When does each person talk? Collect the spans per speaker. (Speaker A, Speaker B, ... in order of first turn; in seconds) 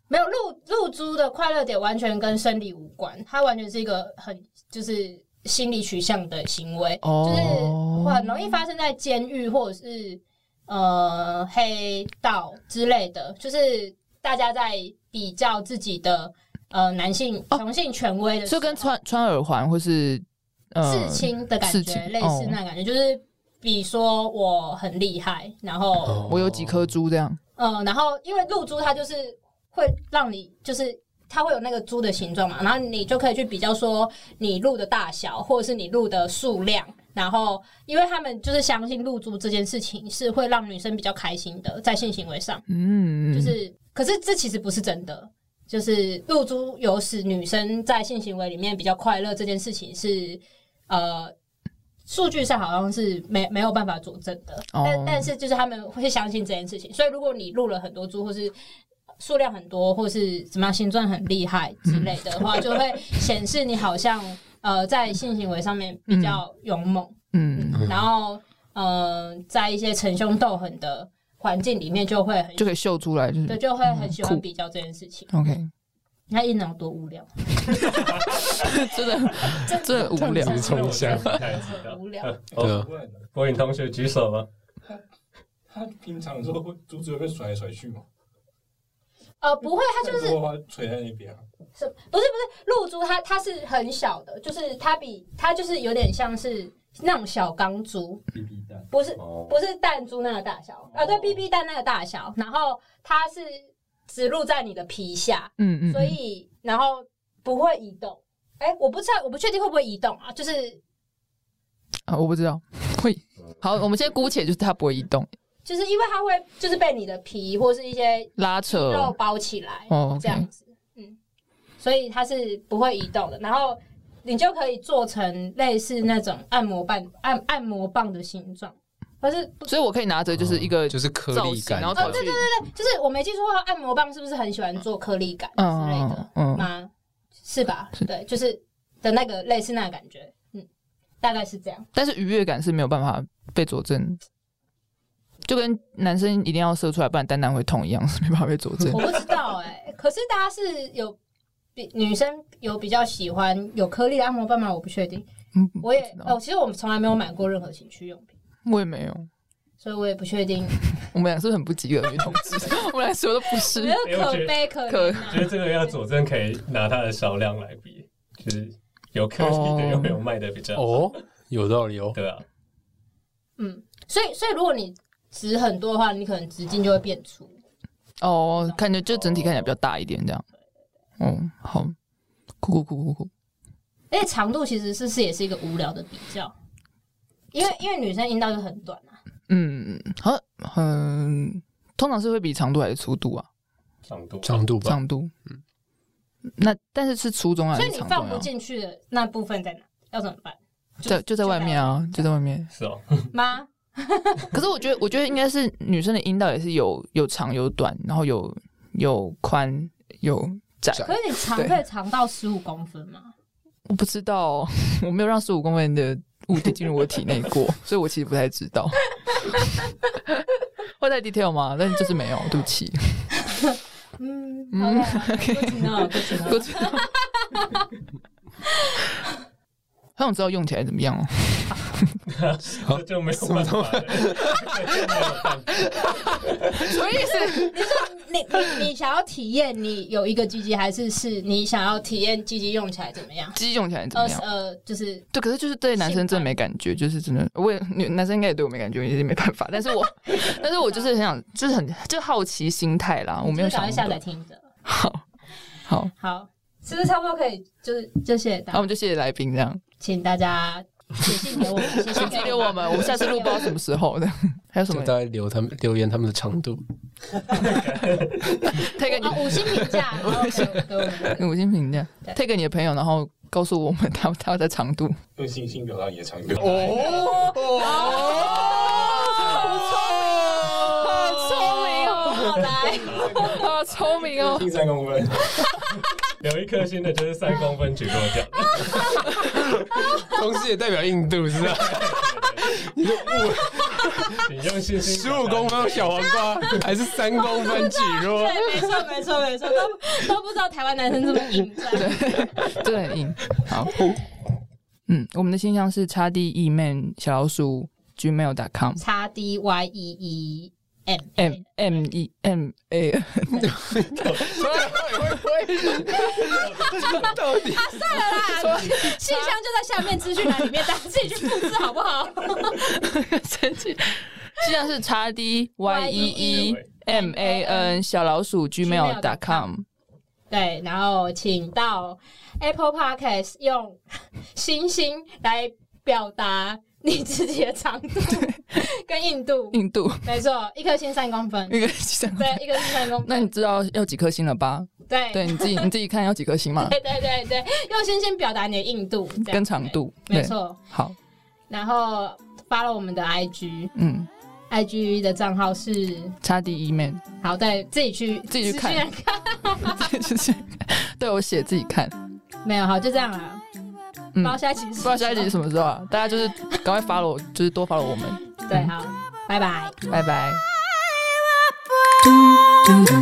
Speaker A: 0.1-18.9, 20.8-26.3, 27.6-42.6, 43.3-51.3, 52.1-58.5, 59.2-72.7, 73.5-75.3, 76.3-78.7, 79.3-82.3, 89.4-90.4, 91.8-98.2, 98.9-110.8, 115.7-121.2, 121.8-129.8, 131.9-136.9, 137.4-140.7, 141.2-141.9, 148.9-151.2, 151.8-155.3, 155.8-158.3, 159.8-160.8, 163.6-165.9, 173.6-177.6, 184.1-186.5, 187.5-189.2, 197.7-202.3, 203.3-204.5, 211.0-213.3, 224.2-227.8, 237.7-243.6, 244.1-245.3, 246.0-246.6, 250.8-251.1, 253.4-254.6, 256.2-258.9, 260.0-263.7, 269.0-271.4, 277.7-280.2, 280.9-283.6, 297.3-302.3, 309.0-311.6, 317.1-322.9, 325.9-328.0, 328.8-329.7, 330.5-334.0, 334.5-341.8, 342.4-343.5, 345.1-345.9, 346.8-350.8, 351.7-353.9, 354.7-356.4, 357.4-360.1, 362.6-363.6, 364.4-365.5, 368.6-370.0
Speaker B: 7.0-8.4, 18.5-22.6, 26.3-27.4, 42.7-43.6, 54.7-55.3, 61.9-62.1, 66.1-66.4, 67.3-67.9, 72.6-74.4, 75.3-75.7, 78.6-80.7, 105.6-106.2, 112.1-115.3, 118.4-119.2, 119.9-120.5, 129.7-132.4, 135.6-136.7, 141.9-144.2, 145.5-149.4, 155.6-156.3, 158.7-159.3, 161.1-164.0, 164.9-165.4, 169.4-170.2, 178.2-180.5, 181.2-181.9, 182.6-183.3, 189.5-193.5, 194.8-195.3, 196.6-198.5, 201.1-202.7, 204.5-211.8, 213.9-219.7, 221.0-223.4, 224.7-227.1, 230.2-232.2, 236.7-237.8, 243.6-244.4, 245.3-254.2, 254.8-255.2, 255.9-256.1, 258.7-259.8, 262.1-265.1, 268.7-275.2, 277.2-282.6, 283.4-284.7, 301.9-304.1, 305.1-309.0, 311.4-316.5, 318.1-319.6, 322.8-329.9, 338.3-338.9, 339.7-340.3, 341.7-347.0, 349.4-351.1, 354.0-354.3, 356.4-357.2, 358.5-359.1, 359.9-362.2, 364.4-368.9, 370.1-370.6
Speaker C: 26.1-26.9, 80.0-81.4, 82.6-82.9, 130.4-132.2, 170.8-172.2, 194.4-195.0, 232.8-235.3, 264.9-266.8, 276.6-281.5, 290.2-294.5, 295.0-298.8, 313.6-318.1
Speaker D: 80.5-82.8, 83.3-84.5, 99.2-99.5, 164.0-164.7, 165.3-171.2, 172.2-172.4, 179.1-179.7, 194.1-194.6, 202.7-203.3, 232.3-236.8, 267.5-268.8, 276.6-277.8, 283.1-284.0, 286.4-289.7, 291.6-293.0, 294.3-296.9, 314.2-314.8, 316.4-317.4, 326.2-326.9
Speaker E: 82.5-83.2, 85.7-88.1, 90.0-91.4, 98.4-98.8, 100.9-101.4, 275.4-277.0, 283.1-285.6